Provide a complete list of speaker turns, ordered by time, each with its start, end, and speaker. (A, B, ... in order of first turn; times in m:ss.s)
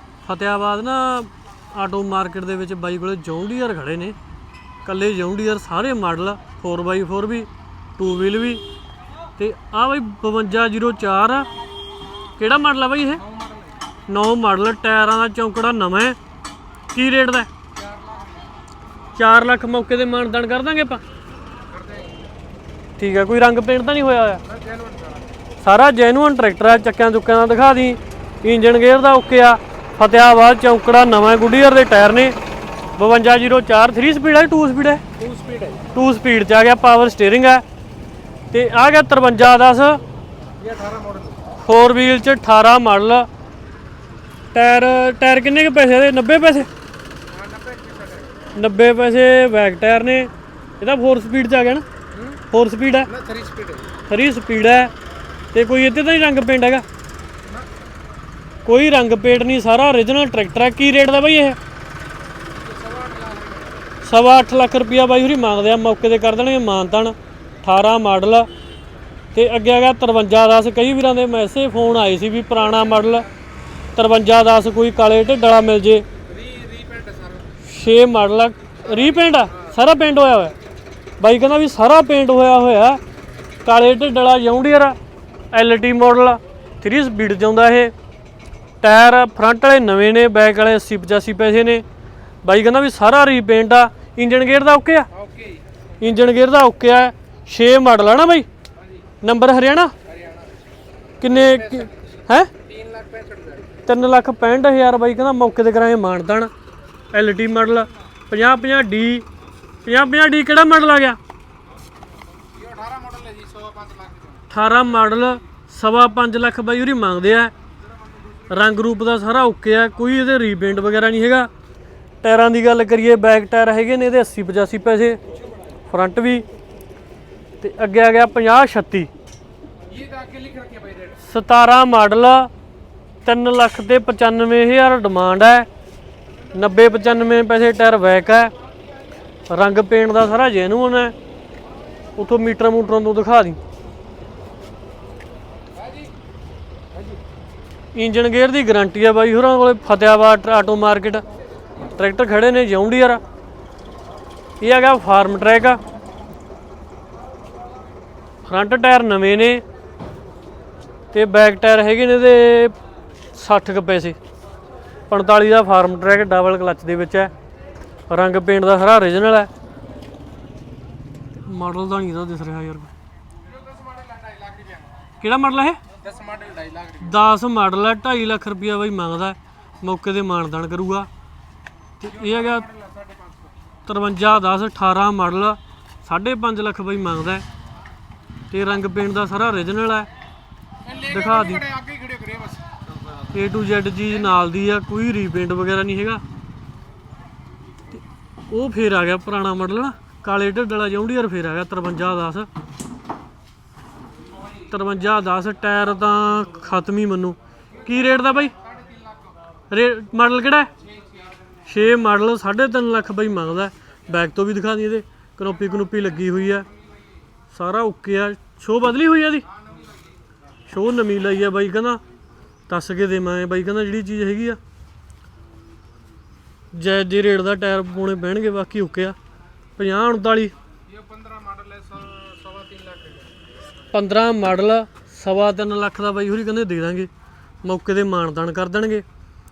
0:00.2-0:04.2 A
0:04.8-0:08.6 A
0:09.4-0:11.5 A
0:12.4-0:13.2 A
0:13.2-0:13.8 B
0:14.1-0:16.2 A
0:16.9-0:17.5 A
0:17.8-0:18.5 B
0:19.2-0:21.0 A
0:21.7-0:22.3 B
0:23.0-0:24.4 A
0:24.4-0:25.3 B
0:25.6-0:32.4 A
0:33.0-0:35.0 A
0:35.2-0:35.9 B
0:35.9-0:37.6 A
0:38.5-0:40.0 A
0:40.6-0:41.4 B
0:41.6-0:43.3 A
0:44.5-0:46.7 A
0:47.3-0:48.3 B
0:48.6-0:51.8 A
0:52.1-0:52.4 B
0:52.5-0:53.1 A
0:53.0-0:54.0 B
0:54.1-0:54.9 A
0:55.5-0:56.8 A
0:58.7-1:01.6 A
1:02.5-1:03.9 B
1:04.0-1:08.5 A
1:09.3-1:13.3 A
1:12.6-1:13.3 B
1:14.0-1:16.0 A
1:16.3-1:17.5 B
1:17.6-1:20.6 A
1:18.8-1:19.8 B
1:21.2-1:23.0 A
1:23.6-1:25.0 A
1:25.5-1:27.9 A
1:28.8-1:31.8 A
1:32.4-1:35.1 A
1:35.1-1:35.6 B
1:36.0-1:38.5 A
1:38.8-1:39.1 B
1:39.2-1:39.9 A
1:40.0-1:40.6 B
1:41.2-1:42.5 A
1:41.2-1:43.7 B
1:43.9-1:46.5 A
1:47.1-1:49.2 A
1:49.8-1:51.2 A
1:52.5-1:54.5 B
1:54.5-1:57.5 A
1:58.5-2:01.5 A
2:02.2-2:05.2 A
2:05.9-2:06.4 A
2:07.6-2:09.1 A
2:09.9-2:11.2 B
2:11.2-2:12.5 A
2:13.2-2:15.7 A
2:16.5-2:18.5 A
2:19.5-2:21.1 A
2:22.2-2:23.6 A
2:25.8-2:26.1 B
2:28.0-2:31.2 A
2:32.0-2:33.2 A
2:34.6-2:35.8 A
2:38.5-2:39.6 A
2:41.1-2:42.8 A
2:43.4-2:44.2 A
2:45.1-2:47.3 A
2:48.1-2:49.5 A
2:51.4-2:52.9 A
2:53.5-2:55.1 B
2:55.2-2:55.8 A
2:56.0-2:57.2 B
2:57.0-3:01.1 A
3:02.0-3:02.6 A
3:02.0-3:03.6 B
3:03.9-3:07.4 A
3:08.5-3:10.1 A
3:10.8-3:12.7 B
3:11.1-3:11.6 A
3:13.3-3:16.2 A
3:17.9-3:22.5 A
3:24.7-3:28.5 A
3:27.8-3:29.4 B
3:29.7-3:30.7 A
3:30.8-3:31.3 B
3:31.7-3:36.7 A
3:35.8-3:36.9 B
3:37.5-3:39.5 A
3:39.7-3:40.0 B
3:40.7-3:42.0 A
3:42.7-3:44.6 A
3:46.7-3:49.2 A
3:49.8-3:50.5 A
3:50.9-3:53.3 B
3:53.9-3:57.1 A
3:57.6-3:59.0 A